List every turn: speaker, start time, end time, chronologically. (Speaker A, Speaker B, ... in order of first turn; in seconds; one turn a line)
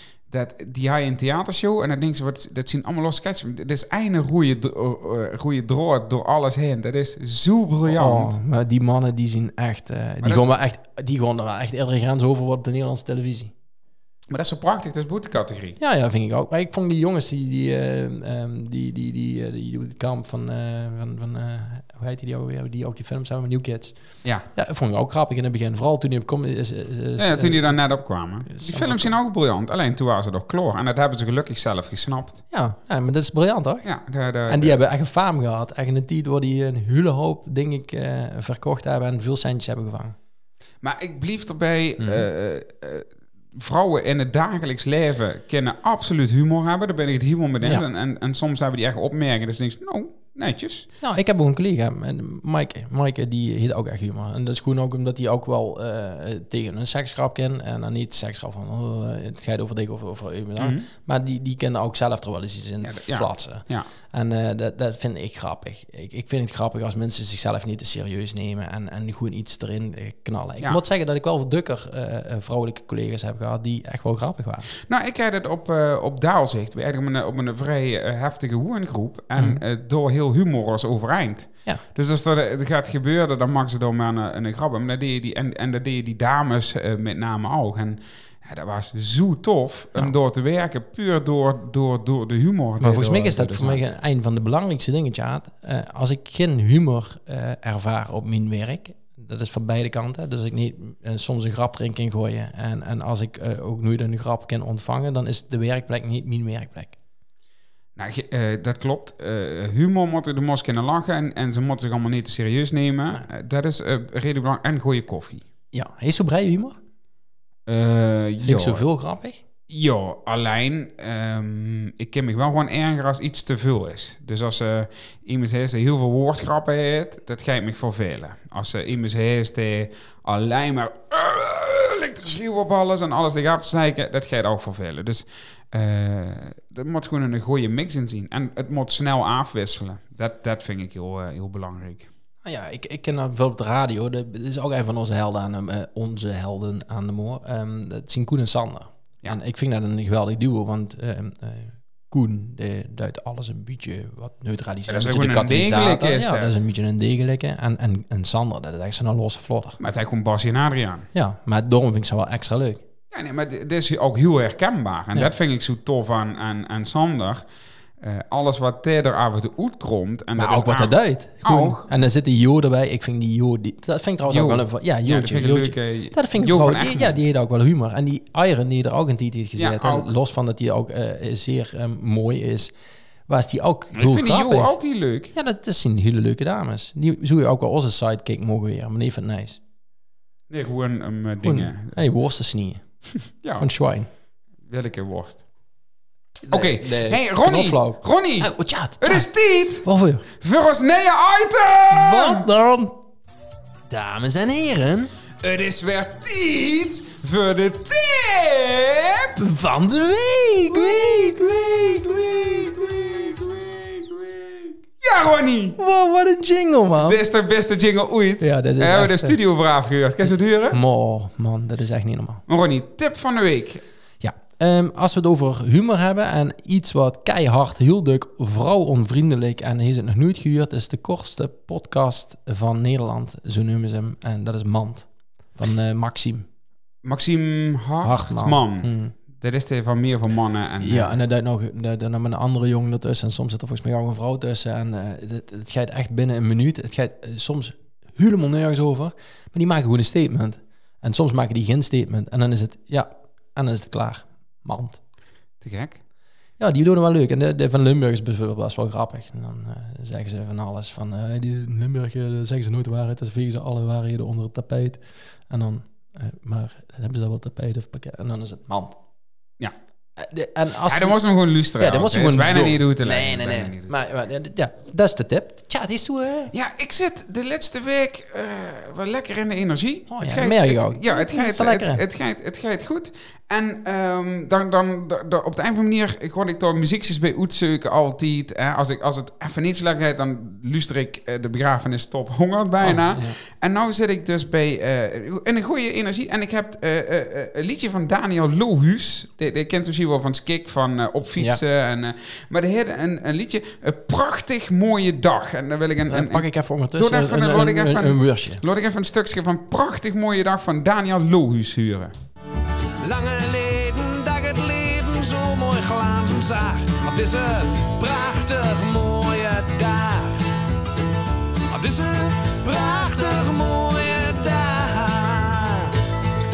Speaker A: 0.3-8.3
Speaker B: 7.9-13.5
Speaker A: 10.2-10.5
Speaker A: 14.3-15.8
Speaker B: 15.8-23.9
Speaker B: 24.5-27.8
Speaker A: 27.2-32.4
Speaker B: 28.5-29.1
Speaker B: 32.5-33.9
Speaker A: 33.8-34.8
Speaker B: 34.5-40.1
Speaker A: 40.8-50.9
Speaker B: 42.0-42.2
Speaker B: 51.0-74.7
Speaker A: 60.6-60.9
Speaker A: 62.8-63.9
Speaker A: 74.8-93.9
Speaker B: 92.8-107.0
Speaker A: 108.0-115.4
Speaker B: 115.7-116.8
Speaker A: 117.7-118.8
Speaker B: 118.4-119.4
Speaker A: 119.7-142.1
Speaker B: 142.4-159.8
Speaker A: 154.9-156.6
Speaker A: 159.8-161.1
Speaker B: 161.1-162.8
Speaker A: 163.1-167.4
Speaker A: 168.0-171.9
Speaker B: 170.4-182.7
Speaker A: 174.3-177.2
Speaker A: 179.6-180.1
Speaker B: 183.3-184.8
Speaker A: 183.9-185.3
Speaker B: 185.3-189.6
Speaker A: 190.5-191.9
Speaker B: 191.4-192.8
Speaker A: 193.4-193.7
Speaker B: 193.6-194.1
Speaker A: 194.7-195.4
Speaker A: 196.5-202.5
Speaker B: 196.5-199.3
Speaker B: 199.8-200.3
Speaker B: 201.9-202.9
Speaker B: 203.9-205.1
Speaker A: 205.4-209.4
Speaker B: 209.4-212.0
Speaker A: 210.7-215.8
Speaker B: 215.8-217.2
Speaker A: 217.0-220.8
Speaker B: 218.4-219.4
Speaker B: 220.7-222.4
Speaker A: 222.5-223.8
Speaker B: 224.2-236.4
Speaker A: 237.0-241.2
Speaker B: 238.0-239.1
Speaker B: 240.8-255.0
Speaker A: 255.6-256.0
Speaker B: 256.6-269.0
Speaker B: 270.2-271.2
Speaker A: 270.9-273.9
Speaker B: 271.8-276.5
Speaker A: 276.5-312.1
Speaker B: 280.1-282.0
Speaker B: 292.8-293.4
Speaker B: 306.1-308.6
Speaker C: 313.0-320.5
Speaker C: 321.7-326.1